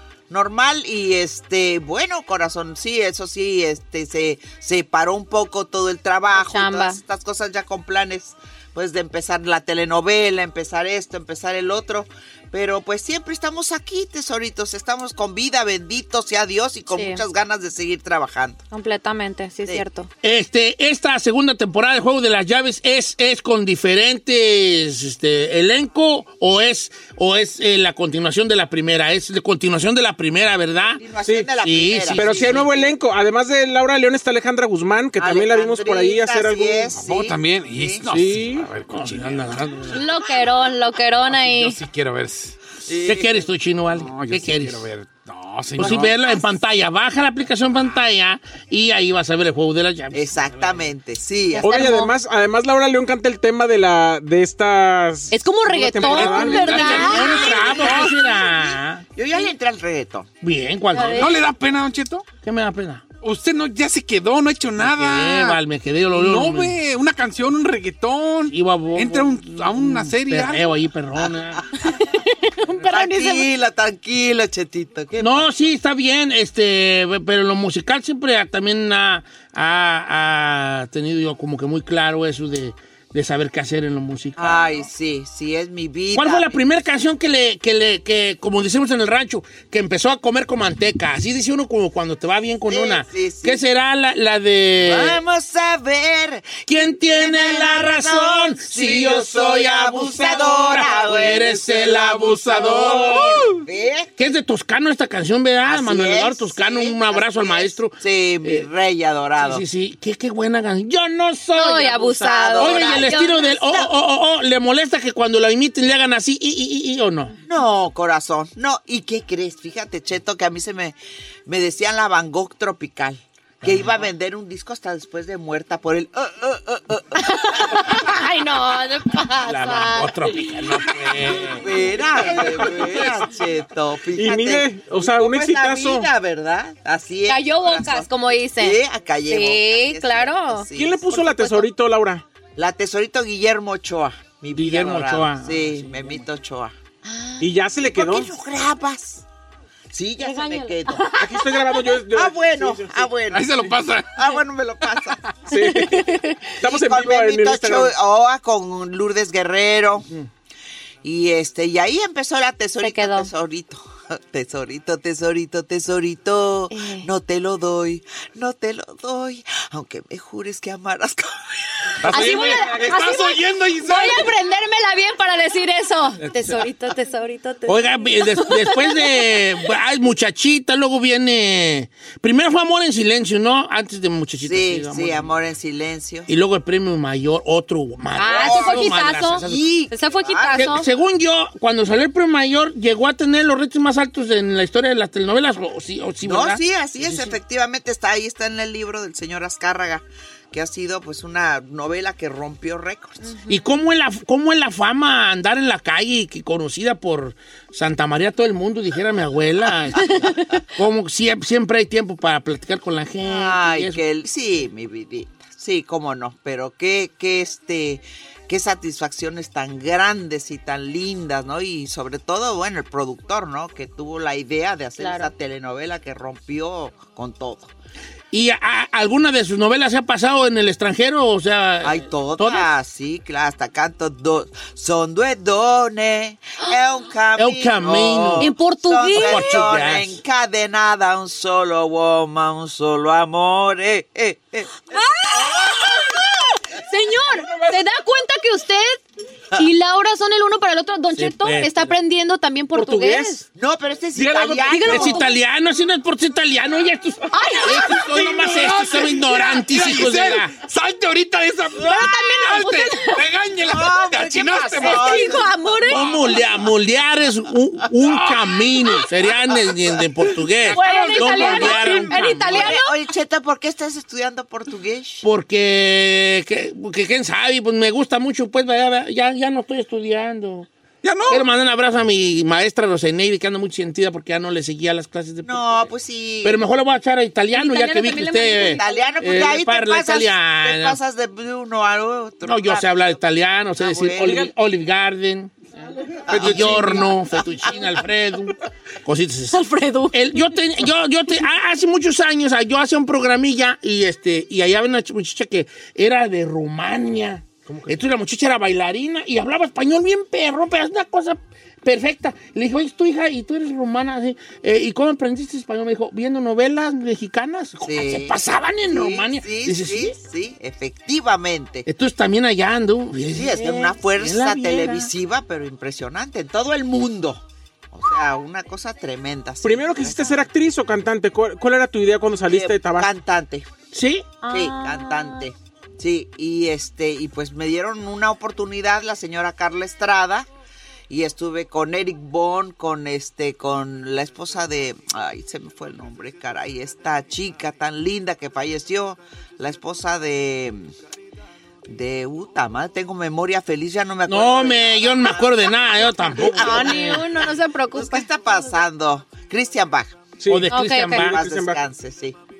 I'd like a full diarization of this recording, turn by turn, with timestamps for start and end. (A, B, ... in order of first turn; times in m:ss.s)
0:00.3-0:18.6 A
0:06.3-0:07.0 B
0:16.9-0:17.2 B
0:18.7-0:20.1 B
0:20.2-0:31.0 C
0:31.0-0:32.9 A
0:31.6-0:32.7 C
0:32.1-0:36.9 D
0:35.2-0:38.0 A
0:36.9-0:39.6 E
0:38.0-0:38.7 D
0:38.9-0:40.0 C
0:39.9-0:41.8 B
0:41.3-0:42.5 E
0:42.8-0:43.4 A
0:43.0-0:44.8 C
0:43.9-0:46.1 E
0:45.8-0:50.9 C
0:45.8-0:46.4 A
0:50.1-0:51.9 A
0:51.6-0:52.1 B
0:51.6-0:57.2 D
0:55.3-0:58.1 B
0:56.0-0:59.0 C
0:56.8-0:58.3 A
0:59.2-1:00.3 A
1:00.4-1:01.3 C
1:00.9-1:01.3 B
1:01.1-1:02.3 E
1:02.4-1:03.0 C
1:03.2-1:05.6 E
1:04.8-1:06.8 C
1:06.1-1:10.7 E
1:08.5-1:11.6 C
1:11.8-1:13.5 B
1:12.9-1:15.5 A
1:15.2-1:24.7 C
1:24.4-1:26.6 A
1:26.1-1:35.2 C
1:32.7-1:33.6 A
1:34.8-1:44.1 A
1:36.7-1:43.5 C
1:44.2-1:48.7 C
1:45.6-1:49.6 A
1:49.4-1:57.3 C
1:51.5-1:53.6 B
1:52.0-1:53.9 A
1:57.4-2:01.0 A
2:01.5-2:08.0 A
2:03.6-2:04.1 C
2:07.2-2:10.3 B
2:09.4-2:11.7 C
2:11.4-2:21.0 A
2:12.2-2:13.1 C
2:14.1-2:16.1 D
2:17.3-2:21.7 B
2:20.7-2:22.2 D
2:22.6-2:26.7 A
2:24.5-2:26.2 C
2:27.0-2:27.4 B
2:27.4-2:28.3 D
2:27.9-2:29.2 A
2:29.9-2:31.2 A
2:30.2-2:31.2 B
2:31.2-2:33.1 D
2:32.1-2:35.2 A
2:33.3-2:34.3 E
2:35.5-2:37.9 D
2:35.6-2:36.4 B
2:36.6-2:40.0 A
2:41.0-2:51.5 A
2:42.8-2:43.3 B
2:46.7-2:47.1 B
2:52.0-2:54.3 E
2:52.1-2:59.0 B
2:56.2-2:56.6 C
2:57.6-3:05.3 C
3:04.4-3:06.3 A
3:06.3-3:09.7 C
3:08.2-3:10.9 B
3:08.2-3:10.8 A
3:10.5-3:17.4 C
3:16.2-3:23.4 A
3:23.2-3:23.6 B
3:23.5-3:34.0 C
3:33.2-3:47.7 A
3:45.0-3:45.3 B
3:48.3-3:52.7 C
3:51.8-4:04.8 A
3:57.4-3:58.5 C
3:58.4-3:59.7 B
3:59.1-4:00.2 C
4:04.9-4:09.0 B
4:05.5-4:05.8 A
4:09.5-4:13.4 B
4:11.1-4:12.0 C
4:12.7-4:13.4 D
4:13.6-4:15.2 A
4:14.1-4:15.0 D
4:14.6-4:15.3 B
4:14.8-4:20.5 C
4:17.3-4:18.0 B
4:17.7-4:25.4 E
4:21.8-4:23.2 B
4:23.6-4:25.5 A
4:24.8-4:26.0 B
4:25.9-4:32.8 C
4:28.1-4:28.4 E
4:30.7-4:32.9 B
4:31.2-4:35.2 A
4:35.2-4:40.7 C
4:41.0-4:41.4 E
4:41.3-4:45.9 C
4:45.4-4:46.7 A
4:46.4-4:51.0 C
4:47.5-4:49.4 B
4:48.6-4:53.2 A
4:52.4-4:55.6 C
4:53.8-4:54.5 A
4:54.2-4:54.5 D
4:56.3-4:57.1 A
4:56.3-5:20.1 C
4:59.5-5:00.2 B
5:17.8-5:21.9 A
5:21.9-5:25.1 C
5:23.3-5:30.5 A
5:29.6-5:33.1 D
5:32.5-5:33.7 A
5:33.9-5:34.3 C
5:34.4-5:35.4 B
5:34.5-5:40.5 A
5:41.1-5:50.9 A
5:51.9-6:00.2 A
5:54.3-5:57.2 C
5:56.5-5:58.3 B
6:00.4-6:00.7 D
6:00.5-6:01.4 C
6:00.7-6:01.3 B
6:01.1-6:02.4 A
6:01.2-6:01.8 D